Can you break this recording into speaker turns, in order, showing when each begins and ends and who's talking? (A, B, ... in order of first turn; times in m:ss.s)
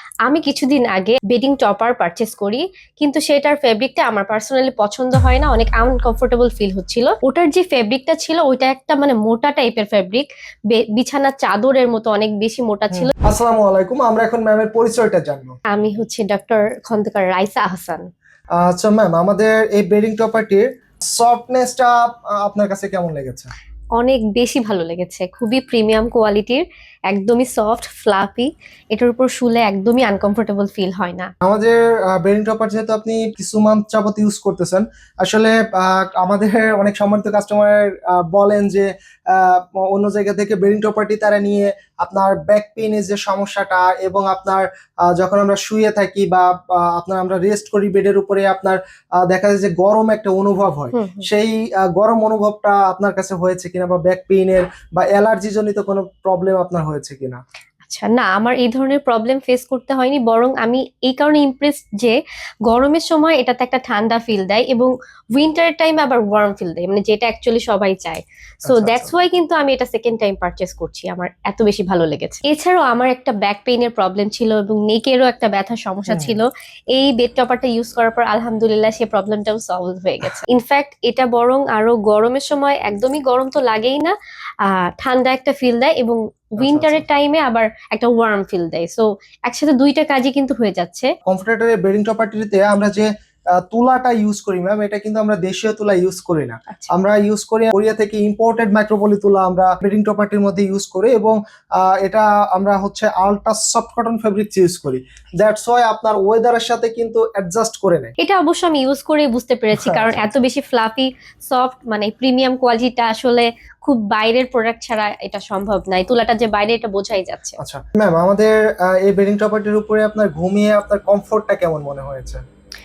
0:00.2-0:13.1 A
0:12.9-0:15.6 B
0:15.7-0:18.1 A
0:18.6-0:23.5 B
0:24.0-0:31.3 A
0:31.4-0:57.4 B
0:50.9-0:51.3 A
0:57.8-1:31.1 A
1:08.6-1:09.1 B
1:16.1-1:16.4 B
1:26.6-1:27.0 B
1:31.3-1:48.1 B
1:48.2-1:57.6 A
1:49.8-1:50.2 B
1:57.6-2:02.4 B